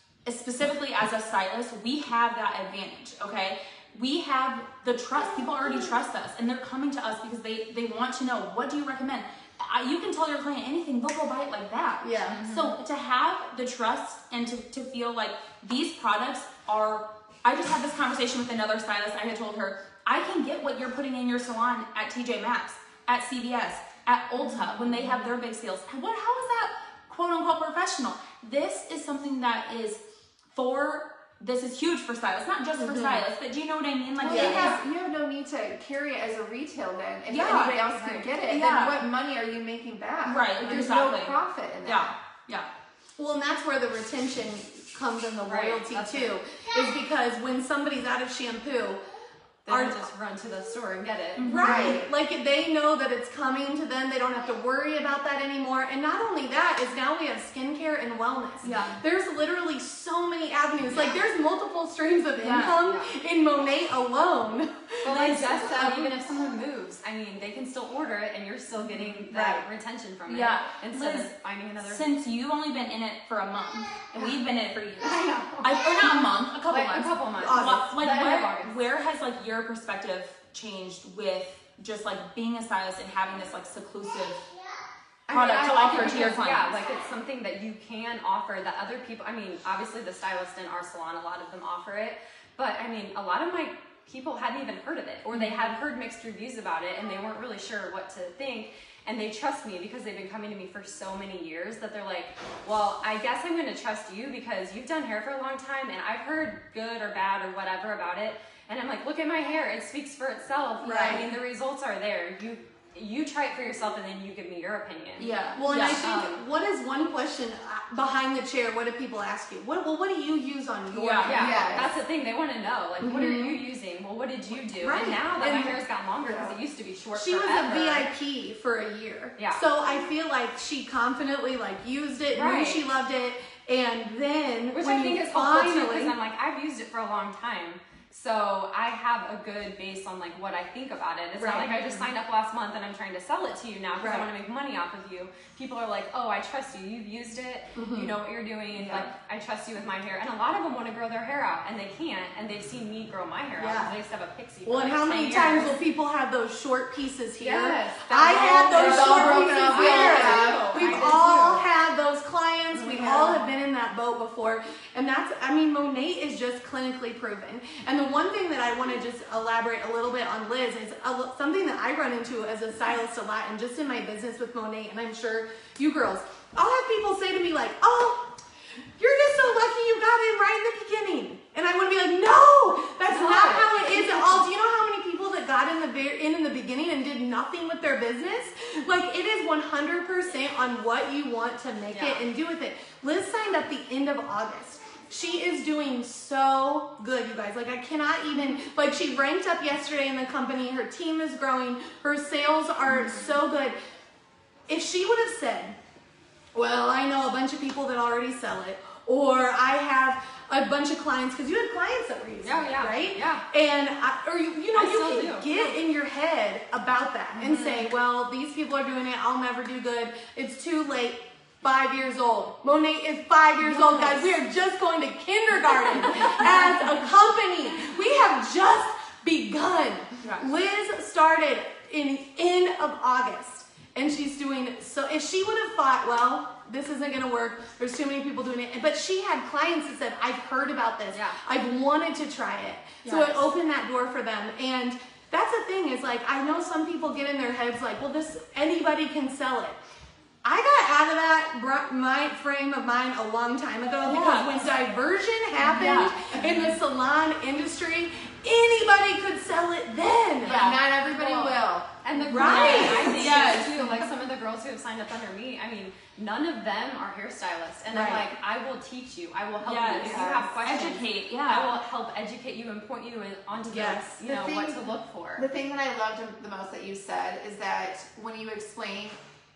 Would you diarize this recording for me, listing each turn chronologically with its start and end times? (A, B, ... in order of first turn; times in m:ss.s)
0:00.2-0:30.0 A
0:12.0-0:12.4 B
0:12.3-0:12.7 C
0:30.5-0:34.8 A
0:32.8-0:33.2 B
0:34.2-0:42.1 D
0:34.2-0:34.8 B
0:37.3-0:39.0 A
0:40.2-0:42.7 A
0:40.6-0:41.0 C
0:43.2-0:49.0 B
0:45.4-0:46.4 C
0:49.7-0:50.1 B
0:49.7-0:51.9 C
0:51.4-0:52.0 A
0:51.4-1:06.1 B
0:51.6-0:52.1 D
0:58.6-0:59.0 A
1:02.4-1:02.8 A
1:02.8-1:03.1 C
1:05.0-1:12.1 C
1:05.2-1:06.0 A
1:09.3-1:09.6 B
1:10.3-1:24.5 A
1:15.0-1:18.8 C
1:17.4-1:18.0 B
1:25.3-1:56.4 C
1:25.3-1:26.5 D
1:25.5-1:26.8 A
1:50.8-1:51.3 B
1:55.2-1:56.0 A
1:55.6-2:01.9 B
2:00.9-2:01.5 A
2:01.2-2:08.1 C
2:01.3-2:02.0 D
2:03.0-2:03.6 B
2:04.8-2:05.8 B
2:06.2-2:06.6 D
2:07.2-2:16.2 B
2:09.4-2:09.6 C
2:12.3-2:12.9 C
2:14.7-2:35.8 C
2:21.4-2:22.0 B
2:24.0-2:24.3 B
2:27.8-2:28.1 B
2:33.6-2:33.9 B
2:34.6-2:58.3 B
2:37.4-2:41.7 C
2:38.5-2:41.2 D
2:42.7-2:43.4 C
2:59.0-3:23.8 B
3:03.1-3:04.4 C
3:11.9-3:12.2 C
3:22.9-3:23.3 C
3:24.7-3:25.8 B
3:26.5-4:09.8 B
3:32.4-3:33.4 C
3:34.8-3:35.8 C
3:37.3-3:37.9 C
3:43.6-3:44.2 A
4:10.4-4:20.7 B
4:14.0-4:14.7 A
4:15.6-4:16.2 A
4:20.4-4:21.9 D
4:20.4-4:20.8 A
4:21.1-4:35.5 C
4:22.2-4:23.4 B
4:22.3-4:23.9 A
4:27.9-4:28.3 B
4:29.6-4:31.8 A
4:30.1-4:30.5 D
4:33.7-4:34.2 B
4:34.2-4:39.2 D